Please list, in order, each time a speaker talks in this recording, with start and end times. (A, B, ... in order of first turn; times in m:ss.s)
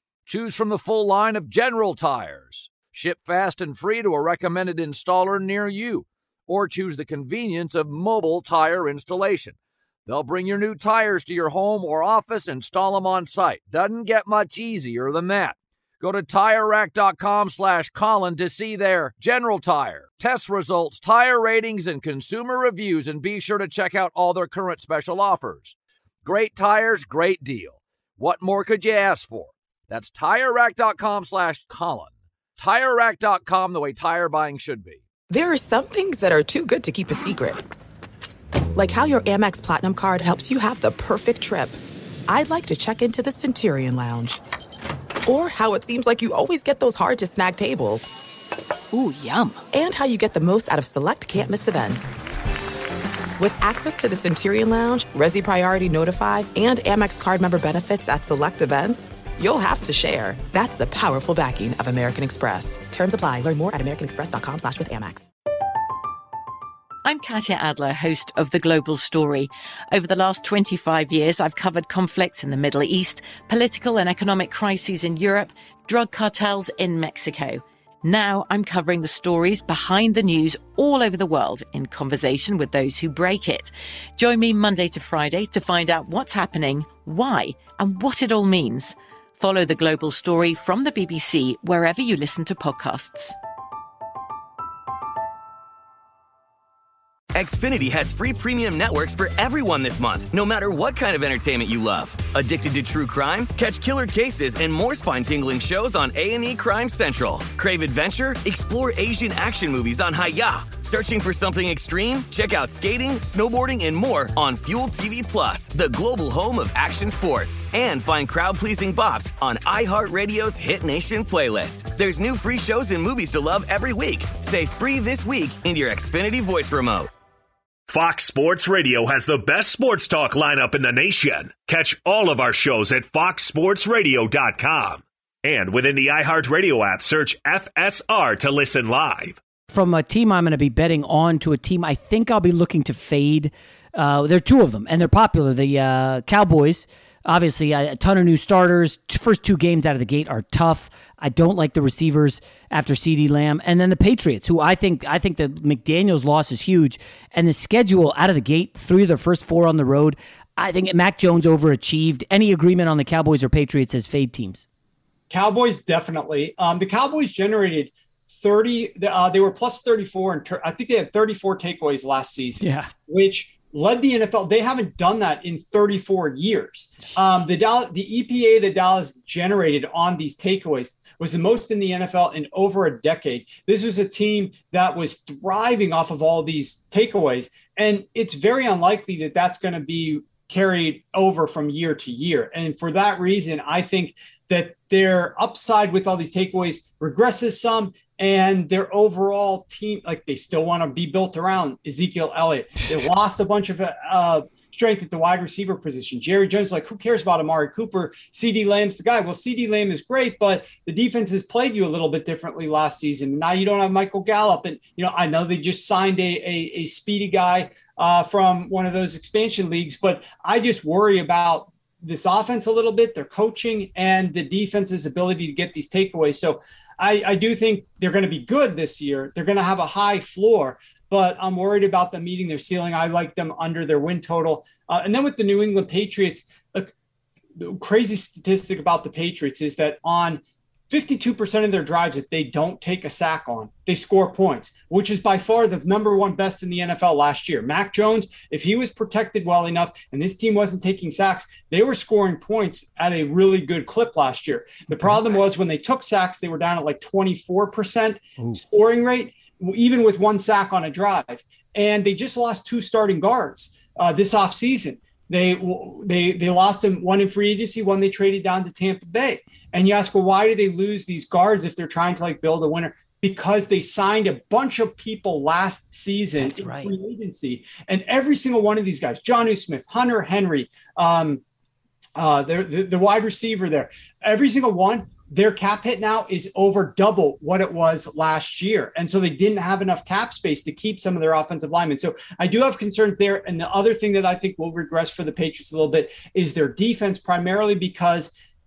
0:00.3-0:35.0 A
0:35.3-0:37.6 B
0:38.7-0:44.4 B
0:45.2-0:48.1 B
0:49.7-0:52.1 B
0:53.4-1:05.3 B
1:07.0-1:33.3 C
1:37.3-2:07.1 D
2:07.9-2:19.4 E
2:19.7-2:44.6 F
2:45.3-3:56.9 G
2:52.6-2:52.9 F
3:57.6-4:41.4 G
4:36.4-4:36.9 F
4:42.2-4:58.3 G